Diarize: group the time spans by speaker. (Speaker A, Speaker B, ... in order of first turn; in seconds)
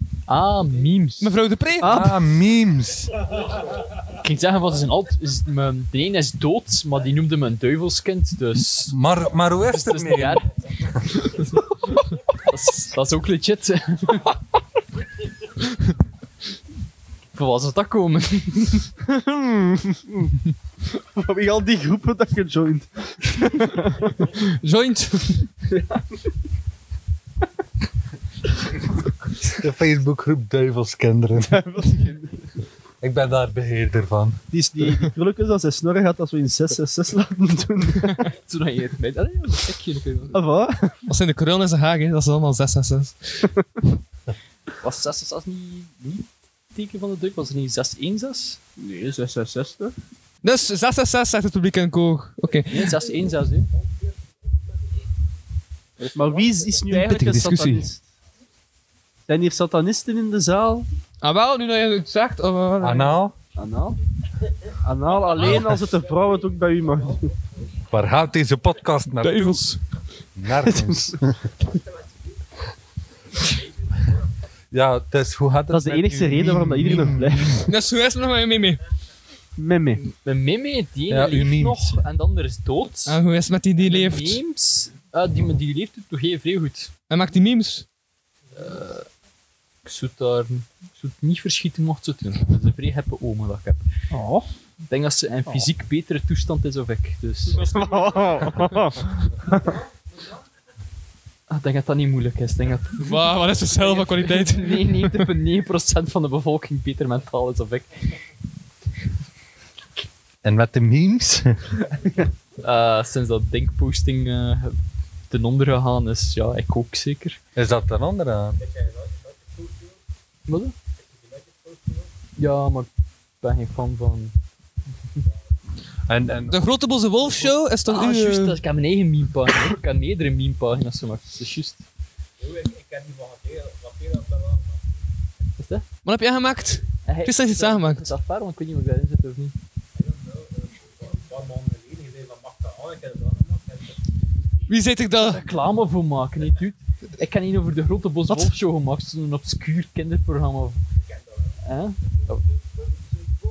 Speaker A: 0.3-1.3, 4.2-8.9, 9.7-10.4, 12.4-14.3, 17.3-18.9, 38.5-40.4, 44.8-48.6, 52.7-53.7, 56.0-56.4, 80.0-83.2, 83.8-86.9, 88.5-89.1, 89.8-93.8, 94.9-97.7, 101.5-108.1, 112.6-114.8, 115.3-117.4, 120.5-120.7, 122.4-122.9, 123.4-124.3, 127.3-131.8, 135.6-135.8, 137.1-139.6, 145.1-150.8, 151.6-152.4
Speaker B: 1.2-2.1, 24.5-25.4, 41.1-43.5, 50.4-52.9, 56.9-57.9, 61.2-63.2, 69.2-69.8, 77.6-78.8, 83.1-84.4, 87.1-87.8, 97.7-98.6, 103.0-105.2, 126.5-128.6, 136.0-138.1, 144.7-145.4
Speaker C: 1.8-2.1, 19.0-20.4, 21.0-24.3, 25.7-26.0, 31.5-32.3, 34.5-38.3, 40.3-41.0, 48.8-49.9, 56.1-58.0, 59.3-60.9, 63.5-64.0, 64.8-67.3, 70.6-71.1, 75.7-77.6, 79.6-80.0, 94.1-94.5, 97.6-99.8
Speaker D: 1.8-3.1, 8.9-10.4, 29.5-31.6, 33.0-34.4, 62.8-63.3, 67.9-69.6, 70.3-71.4, 74.7-77.6, 81.1-82.0, 110.4-111.6, 117.5-118.6, 126.1-126.6
Speaker E: 118.6-119.9, 121.0-122.1, 132.4-134.8, 139.9-144.0